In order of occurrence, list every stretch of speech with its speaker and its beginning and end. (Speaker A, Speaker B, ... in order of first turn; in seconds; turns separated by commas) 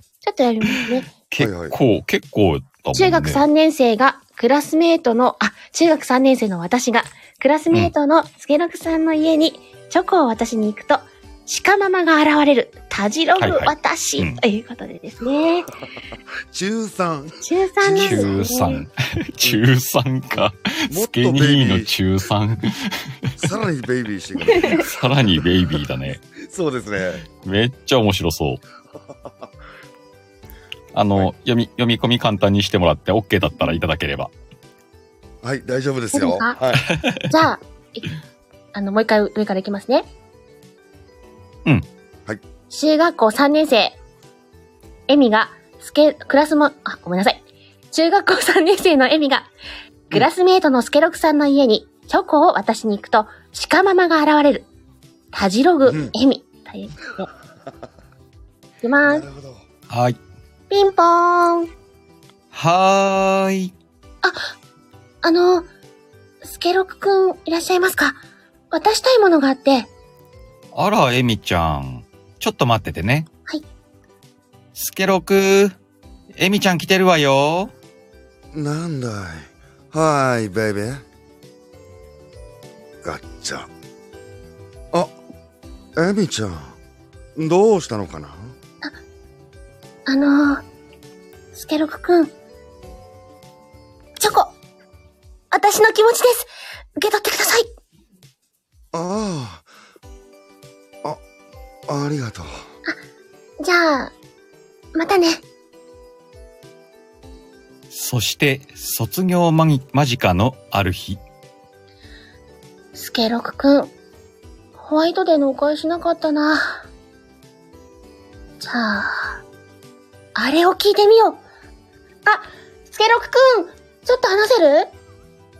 Speaker A: 0.2-1.1, Speaker B: 1.3-3.4, Speaker C: 1.4-1.7, Speaker A: 2.9-15.7, Speaker B: 13.4-14.4, Speaker C: 16.5-18.5, Speaker A: 17.4-18.8, Speaker B: 17.9-23.1, Speaker C: 20.9-21.9, Speaker C: 23.4-25.5, Speaker A: 24.5-24.8, Speaker B: 24.7-26.2, Speaker C: 26.3-27.3, Speaker B: 27.4-28.6, Speaker C: 29.1-29.5, Speaker B: 30.9-34.3, Speaker A: 33.5-33.8, Speaker C: 35.4-36.9, Speaker A: 36.1-36.5, Speaker B: 36.8-37.2, Speaker A: 37.3-38.1, Speaker A: 38.7-40.1, Speaker A: 42.7-44.0, Speaker A: 45.1-49.5, Speaker A: 50.1-54.7, Speaker A: 55.3-57.3, Speaker C: 55.9-56.1, Speaker A: 58.8-59.3, Speaker C: 59.0-59.6, Speaker B: 59.9-60.2, Speaker A: 60.7-61.7, Speaker B: 62.5-63.7, Speaker A: 64.2-64.5, Speaker A: 65.2-65.7, Speaker A: 66.4-68.2, Speaker A: 68.7-69.9, Speaker B: 70.7-73.3, Speaker B: 74.7-75.8, Speaker B: 76.4-77.7, Speaker C: 78.5-81.0, Speaker C: 83.0-83.7, Speaker C: 86.0-86.8, Speaker C: 87.3-88.5, Speaker A: 90.1-90.6, Speaker A: 91.5-92.3, Speaker A: 94.2-94.5, Speaker A: 95.5-97.7, Speaker C: 98.9-99.7, Speaker C: 101.9-102.6, Speaker A: 103.6-104.1, Speaker A: 104.9-105.4, Speaker B: 107.9-111.2, Speaker A: 112.9-113.9, Speaker A: 114.8-116.8, Speaker A: 118.6-119.4, Speaker A: 120.3-121.4, Speaker A: 122.2-124.9